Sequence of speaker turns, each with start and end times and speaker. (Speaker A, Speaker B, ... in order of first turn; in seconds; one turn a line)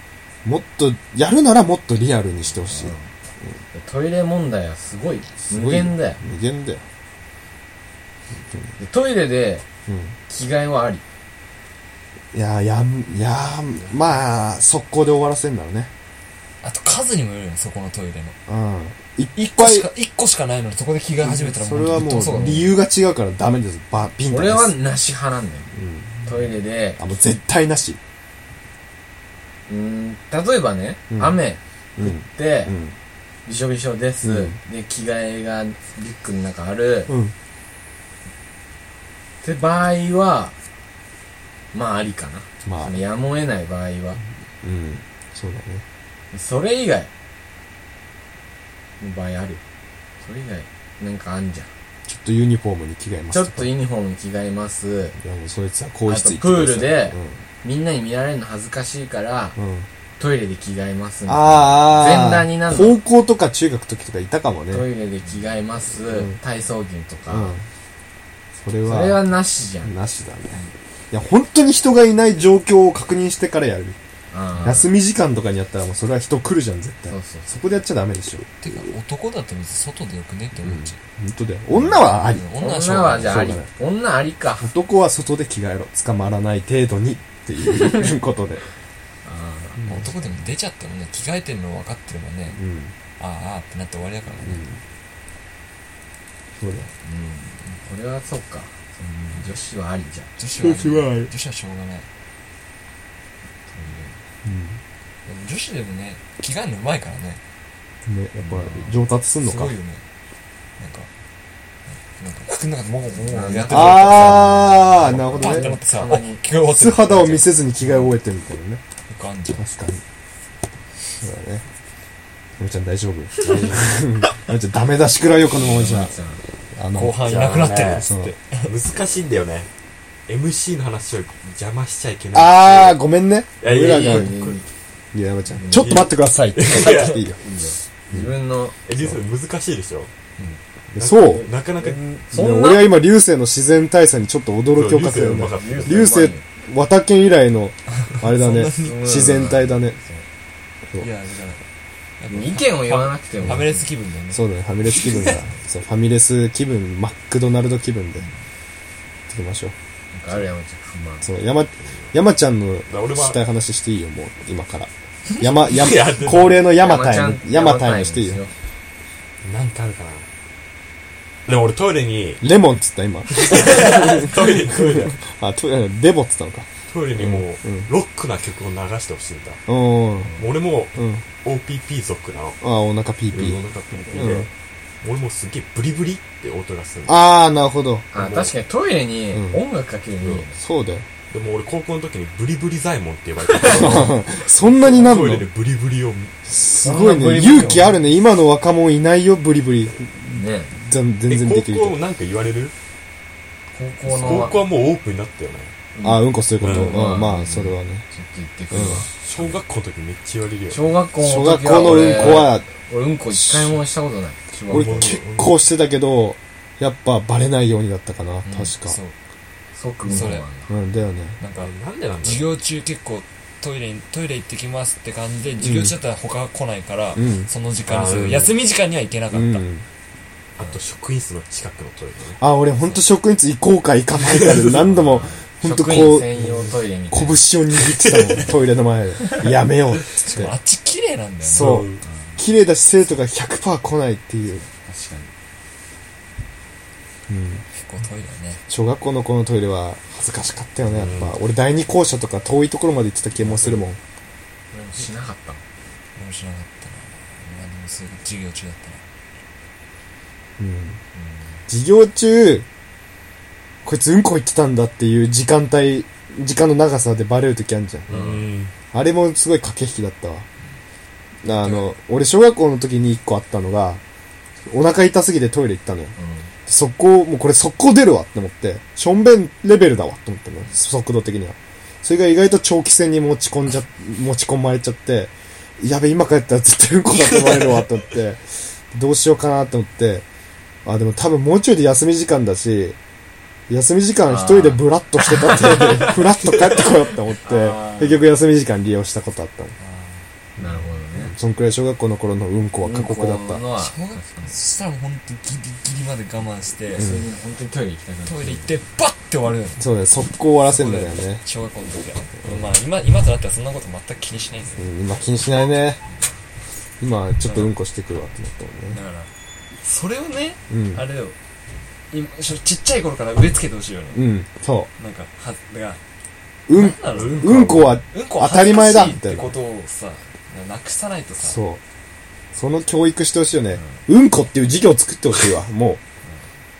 Speaker A: 0.4-2.9
Speaker B: 2.7-3.1
Speaker B: 3.7-6.2
Speaker A: 5.5-6.8
Speaker B: 8.8-9.6
Speaker A: 9.9-10.1
Speaker B: 10.3-11.0
Speaker A: 12.3-15.9
Speaker C: 16.6-18.3
Speaker A: 18.5-19.9
Speaker C: 19.4-22.7
Speaker A: 21.2-24.7
Speaker B: 24.3-25.7
Speaker A: 25.7-26.3
Speaker B: 26.2-27.0
Speaker A: 27.0-28.0
Speaker B: 29.7-32.7
Speaker A: 31.1-31.4
Speaker A: 32.0-32.9
Speaker B: 33.5-37.1
Speaker A: 34.2-34.5
Speaker A: 37.1-37.3
Speaker B: 39.4-40.5
Speaker B: 41.7-44.2
Speaker A: 42.6-43.0
Speaker A: 44.6-45.8
Speaker B: 46.3-47.1
Speaker B: 49.0-49.6
Speaker B: 50.2-51.7
Speaker A: 52.1-53.7
Speaker B: 53.3-55.1
Speaker A: 55.2-57.4
Speaker B: 56.1-59.5
Speaker A: 59.6-59.9
Speaker B: 60.2-63.0
Speaker A: 61.3-64.8
Speaker B: 64.7-67.5
Speaker A: 66.1-66.3
Speaker A: 67.3-67.6
Speaker A: 68.6-69.2
Speaker B: 68.8-69.9
Speaker A: 69.8-74.0
Speaker B: 74.3-74.9
Speaker A: 74.6-78.4
Speaker B: 77.1-77.5
Speaker C: 78.6-81.0
Speaker A: 80.6-82.5
Speaker B: 81.7-82.0
Speaker C: 82.2-83.5
Speaker B: 82.5-84.7
Speaker A: 83.1-83.7
Speaker A: 84.6-88.6
Speaker B: 89.2-89.9
Speaker C: 89.8-92.6
Speaker A: 92.5-92.9
Speaker C: 93.2-94.7
Speaker A: 94.5-94.8
Speaker A: 96.6-96.9
Speaker B: 97.0-100.3
Speaker C: 100.4-102.1
Speaker A: 100.6-101.3
Speaker B: 103.7-104.2
Speaker A: 104.4-104.8
Speaker C: 105.2-107.4
Speaker A: 108.0-109.7
Speaker B: 108.4-108.9
Speaker C: 109.4-110.0
Speaker C: 110.8-111.1
Speaker C: 111.9-117.5
Speaker B: 113.1-116.4
Speaker A: 113.7-115.7
Speaker A: 116.7-118.8
Speaker C: 119.1-119.6
Speaker A: 119.5-120.0
Speaker A: 121.2-121.6
Speaker A: 122.6-126.1
Speaker B: 125.5-126.4
Speaker A: 126.8-127.3
Speaker C: 126.9-128.7
Speaker D: 127.2-128.1
Speaker A: 127.9-128.3
Speaker D: 128.6-129.7
Speaker D: 130.3-133.0
Speaker A: 132.3-134.3
Speaker D: 133.6-134.6
Speaker B: 133.6-134.6
Speaker A: 135.1-137.4
Speaker B: 135.6-135.9
Speaker D: 135.7-137.2
Speaker B: 137.4-138.7
Speaker D: 138.8-140.1
Speaker A: 140.9-141.5
Speaker D: 141.0-142.0
Speaker B: 141.3-142.9
Speaker A: 142.3-150.0
Speaker D: 144.7-146.1
Speaker B: 145.5-146.4
Speaker C: 148.2-149.2
Speaker B: 148.7-150.2
Speaker C: 151.0-151.6
Speaker C: 152.2-154.4
Speaker B: 152.3-153.8
Speaker A: 154.3-158.2
Speaker A: 159.3-159.7
Speaker B: 160.1-161.3
Speaker A: 161.2-168.4
Speaker D: 162.9-163.4
Speaker D: 165.5-166.6
Speaker B: 166.8-168.5
Speaker D: 169.4-170.3
Speaker D: 171.4-172.4
Speaker A: 172.4-176.7
Speaker D: 173.3-175.2
Speaker D: 176.9-179.6
Speaker A: 177.2-177.9
Speaker A: 179.7-180.3
Speaker D: 180.3-182.6
Speaker A: 180.9-181.2
Speaker A: 182.6-183.6
Speaker D: 183.3-184.5
Speaker A: 184.1-184.5
Speaker D: 185.0-187.2
Speaker A: 187.1-188.1
Speaker B: 188.1-190.6
Speaker D: 188.2-188.5
Speaker A: 189.3-189.6
Speaker A: 190.5-191.1
Speaker D: 191.3-196.3
Speaker B: 193.6-193.9
Speaker A: 193.6-195.5
Speaker A: 196.5-202.0
Speaker B: 196.8-197.9
Speaker B: 200.3-200.7
Speaker D: 201.3-202.7
Speaker B: 203.7-204.6
Speaker D: 204.1-205.7
Speaker B: 205.9-209.6
Speaker A: 206.0-208.0
Speaker D: 206.6-206.9
Speaker A: 208.7-209.1
Speaker D: 208.7-210.9
Speaker B: 210.7-215.2
Speaker A: 211.2-212.7
Speaker A: 213.4-213.7
Speaker D: 214.7-215.5
Speaker A: 214.7-219.0
Speaker B: 218.4-218.7
Speaker C: 218.8-219.1
Speaker B: 219.8-220.7
Speaker C: 220.0-220.4
Speaker A: 220.1-221.4
Speaker C: 221.4-229.6
Speaker D: 221.5-222.5
Speaker A: 225.6-225.9
Speaker A: 227.2-227.5
Speaker D: 227.9-228.5
Speaker A: 229.3-229.8
Speaker D: 230.6-232.4
Speaker A: 232.4-236.5
Speaker D: 234.2-235.2
Speaker B: 235.1-237.4
Speaker A: 237.1-240.5
Speaker D: 237.8-238.5
Speaker C: 240.2-241.8
Speaker A: 241.4-244.6
Speaker D: 241.5-242.0
Speaker B: 242.0-242.4
Speaker B: 244.7-245.3
Speaker A: 247.3-247.6
Speaker C: 247.8-248.6
Speaker A: 248.7-254.0
Speaker D: 250.9-251.3
Speaker D: 253.4-253.8
Speaker B: 254.7-255.6
Speaker C: 256.1-259.0
Speaker A: 260.6-261.0
Speaker B: 261.1-261.4
Speaker A: 261.7-262.6
Speaker A: 263.8-268.1
Speaker D: 268.1-268.7
Speaker B: 268.1-268.5
Speaker A: 268.9-270.4
Speaker A: 271.4-274.0
Speaker A: 274.7-276.1
Speaker B: 276.2-276.5
Speaker A: 276.7-290.2
Speaker A: 290.8-293.0
Speaker A: 293.7-299.7
Speaker B: 294.3-294.8
Speaker B: 295.6-295.9
Speaker B: 297.4-298.2
Speaker C: 299.8-300.2
Speaker B: 300.6-301.3
Speaker A: 301.2-303.6
Speaker B: 302.8-304.5
Speaker C: 303.8-307.1
Speaker A: 306.9-307.2
Speaker B: 306.9-308.7
Speaker C: 308.2-309.8
Speaker A: 309.8-311.4
Speaker C: 310.6-314.9
Speaker A: 314.8-316.0
Speaker A: 317.0-319.0
Speaker C: 317.4-317.7
Speaker C: 318.9-319.3
Speaker C: 319.8-321.4
Speaker A: 320.7-321.0
Speaker C: 322.1-324.2
Speaker A: 324.1-324.9
Speaker C: 325.0-326.0
Speaker A: 326.7-329.5
Speaker C: 326.7-331.6
Speaker D: 327.1-327.9
Speaker A: 331.4-331.8
Speaker A: 332.5-336.0